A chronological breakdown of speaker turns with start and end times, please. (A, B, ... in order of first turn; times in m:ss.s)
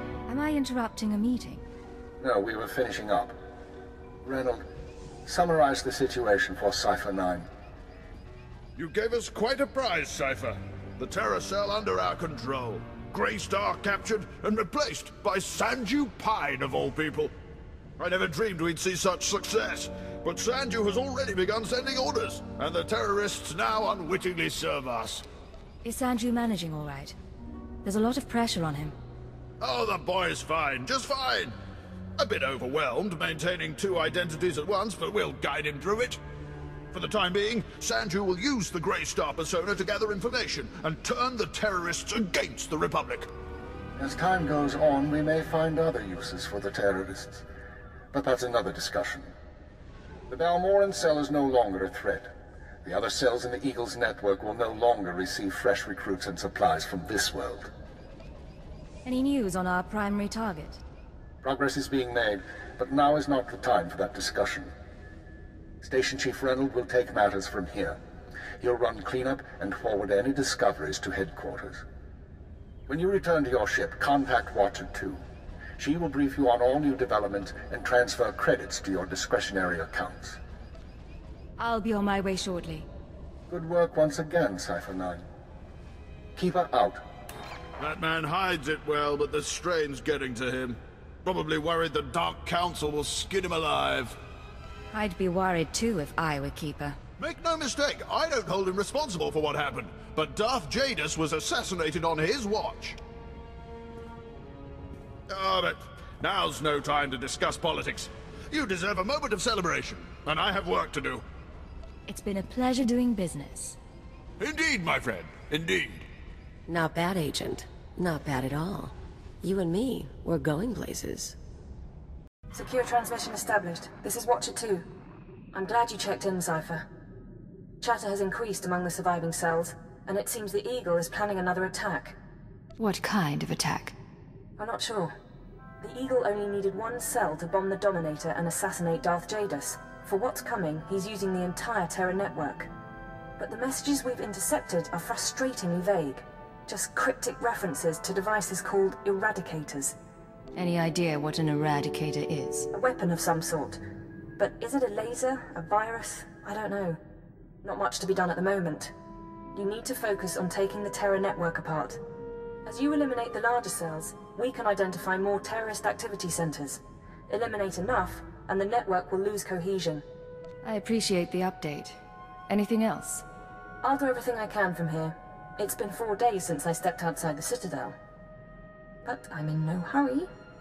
0:00.3-0:01.6 A
0:02.2-0:03.3 B
0:04.2-0:04.6 B
0:05.3-0:07.5 B
0:08.8-0:17.3 C
0:18.0-0:25.2 C
0:25.8-0:27.2 A
0:27.8-0:28.9 A
0:29.6-0:31.6 C
0:32.2-0:36.2 C
0:36.9-0:43.3 C
0:44.0-0:47.4 B
0:48.1-0:49.3 B
0:50.3-0:52.3 B
0:52.8-0:57.7 B
0:59.0-1:00.8 A
1:01.4-1:04.7 B
1:05.8-1:08.0 B
1:08.6-1:11.8 B
1:12.9-1:15.2 B
1:15.8-1:20.4 B
1:21.6-1:22.9 A
1:23.5-1:25.2 B
1:26.4-1:27.0 B
1:27.8-1:34.2 C
1:34.9-1:37.0 A
1:37.2-1:43.0 C
1:45.3-1:51.2 C
1:52.1-1:53.8 A
1:54.4-1:56.1 C
1:56.7-2:01.4 D
2:02.5-2:04.8 E
2:05.5-2:06.9 E
2:07.8-2:12.2 E
2:12.8-2:14.0 A
2:14.6-2:15.1 E
2:15.8-2:22.7 E
2:23.4-2:29.9 E
2:30.6-2:32.7 A
2:32.7-2:33.8 E
2:34.4-2:37.0 E
2:37.6-2:38.9 E
2:39.5-2:42.0 E
2:42.6-2:50.0 E
2:50.6-2:53.2 A
2:53.8-2:57.9 E
2:59.0-3:00.3 E